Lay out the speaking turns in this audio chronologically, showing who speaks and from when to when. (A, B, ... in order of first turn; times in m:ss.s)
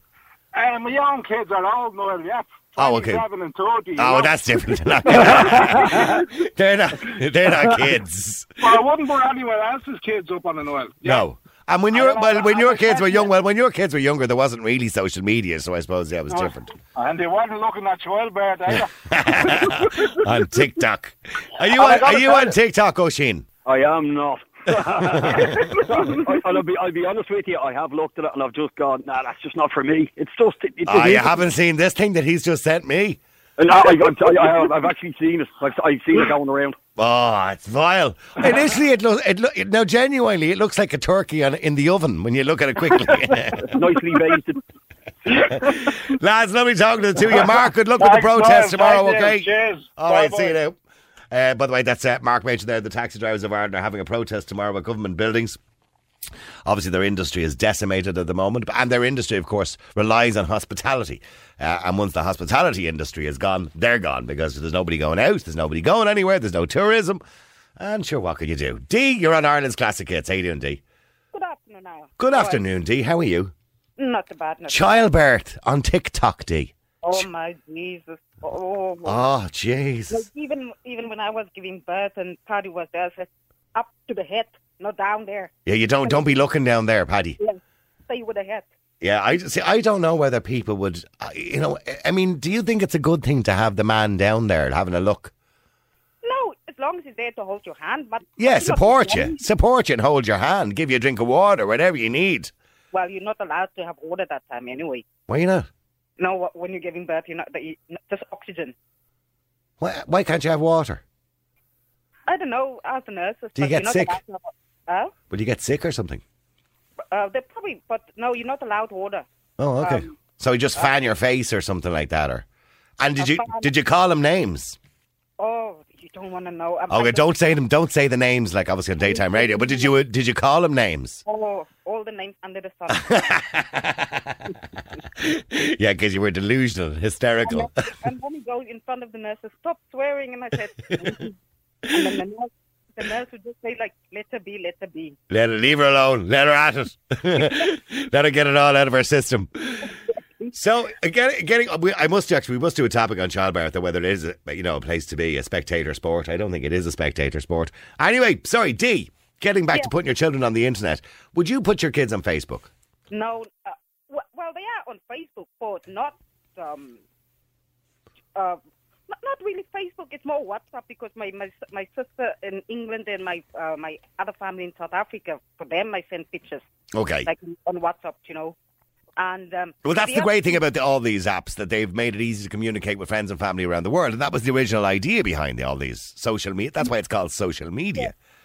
0:00.5-0:06.3 A
0:02.8-0:03.2 B
0:04.0-0:08.8 B
0:08.6-0:11.2 A
0:11.0-0:16.7 B
0:11.9-0:13.3 A
0:16.3-0:19.9 A
0:18.7-0:23.5 B
0:21.8-0:22.4 C
0:23.6-0:31.5 C
0:25.0-0:25.6 B
0:30.9-0:33.2 B
0:33.6-0:36.8 C
0:37.0-0:43.8 B
0:43.6-0:44.6 C
0:45.3-0:45.9 A
0:45.5-0:50.8 B
0:48.0-0:50.6 A
0:51.3-0:55.6 B
0:56.6-1:07.2 B
1:07.8-1:10.8 B
1:11.3-1:12.6 D
1:12.2-1:13.5 B
1:14.0-1:15.1 D
1:14.7-1:17.3 B
1:17.0-1:19.3 D
1:19.0-1:20.3 B
1:20.1-1:25.5 D
1:25.7-1:27.4 B
1:26.0-1:26.4 D
1:27.4-1:28.7 D
1:29.0-1:35.3 B
1:36.2-1:39.4 D
1:38.4-1:42.5 B
1:42.9-1:45.0 D
1:45.3-1:45.7 B
1:46.2-1:48.7 D
1:49.8-1:51.0 B
1:52.3-1:55.1 D
1:53.6-1:54.2 B
1:55.3-1:56.2 B
1:57.1-1:59.2 D
1:59.6-2:02.5 B
1:59.8-2:00.1 D
2:03.0-2:04.8 B
2:03.2-2:03.7 D
2:05.4-2:07.2 D
2:06.9-2:11.2 B
2:09.0-2:09.9 D
2:11.2-2:13.2 D
2:12.9-2:14.6 B
2:15.2-2:17.7 B
2:17.4-2:21.4 D
2:21.9-2:25.2 D
2:25.3-2:29.9 B
2:29.8-2:30.5 D
2:30.5-2:42.7 B
2:43.1-2:47.0 D
2:48.4-2:56.6 D
2:56.9-2:57.3 B
2:57.2-2:58.6 D
2:59.2-3:00.6 D
2:59.8-3:08.2 B